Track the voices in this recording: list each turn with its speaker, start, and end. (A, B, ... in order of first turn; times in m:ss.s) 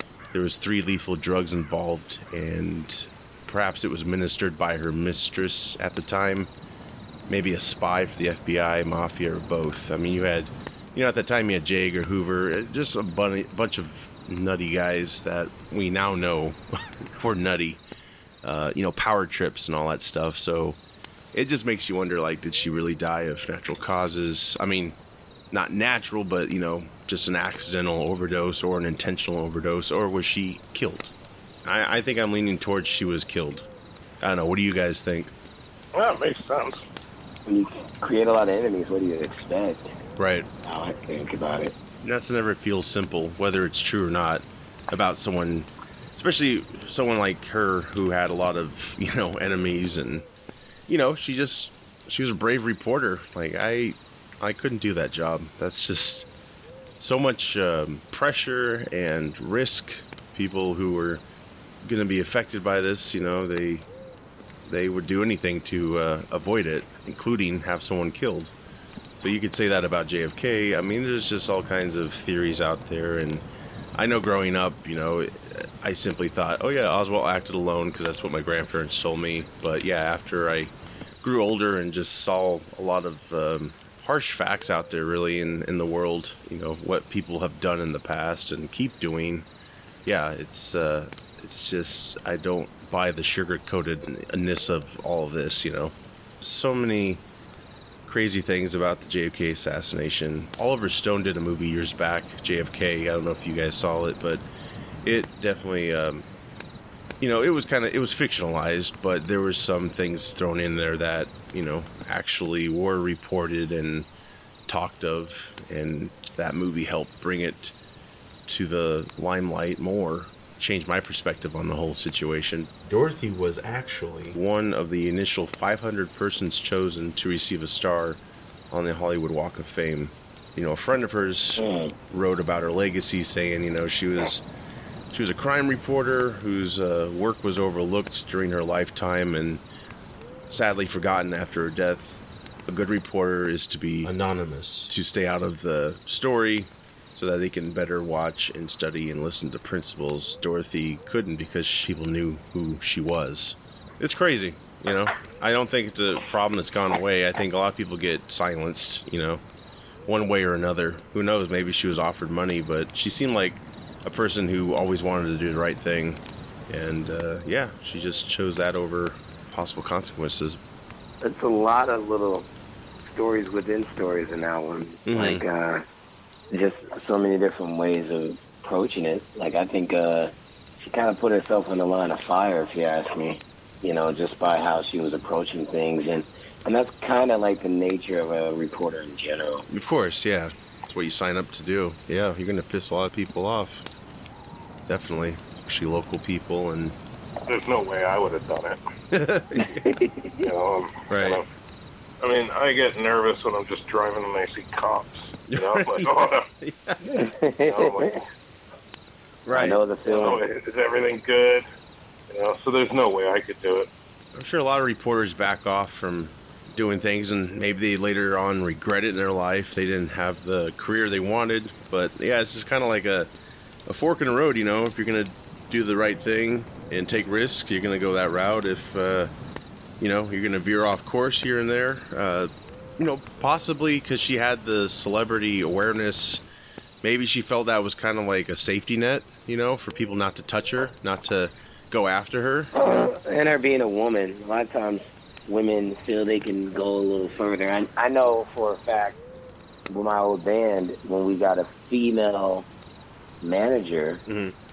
0:00.3-0:06.5 A
0:07.3-0:17.8 A
0:18.4-0:20.8 A
0:21.3-0:25.0 A
0:25.5-0:33.7 A
0:34.2-0:35.3 A
0:35.9-0:36.8 B
0:37.4-0:39.9 C
0:40.2-0:40.5 A
0:40.6-0:41.7 C
0:42.0-0:50.2 A
0:50.9-0:56.3 A
0:57.0-1:01.2 A
1:01.8-1:03.9 A
1:04.6-1:08.5 A
1:09.2-1:29.4 A
1:30.0-1:37.2 A
1:38.0-1:44.4 A
1:45.0-1:46.2 A
1:47.2-1:54.1 A
1:54.7-1:57.7 A
1:58.5-2:08.2 A
2:08.7-2:14.4 A
2:11.6-2:11.9 C
2:15.1-2:19.6 A
2:20.5-2:39.4 A
2:40.0-2:50.6 A
2:51.2-2:52.5 C
2:53.0-2:55.8 C
2:55.0-2:55.4 A
2:56.5-3:09.7 C
3:09.7-3:13.8 A
3:14.9-3:17.0 A
3:17.5-3:18.8 B
3:19.1-3:19.9 A
3:19.6-3:20.5 C
3:20.4-3:21.4 B
3:21.1-3:21.4 A
3:22.2-3:26.4 B
3:25.5-3:27.0 A
3:27.0-3:28.2 C
3:27.6-3:28.2 B
3:29.4-3:29.8 A
3:29.5-3:30.4 C
3:30.0-3:31.6 B
3:32.3-3:33.9 B
3:34.3-3:43.3 A
3:43.8-3:49.3 A
3:50.0-3:56.4 A
3:57.0-4:03.1 A
4:02.7-4:09.2 C
4:09.9-4:12.7 C
4:13.4-4:14.2 C
4:14.3-4:14.5 A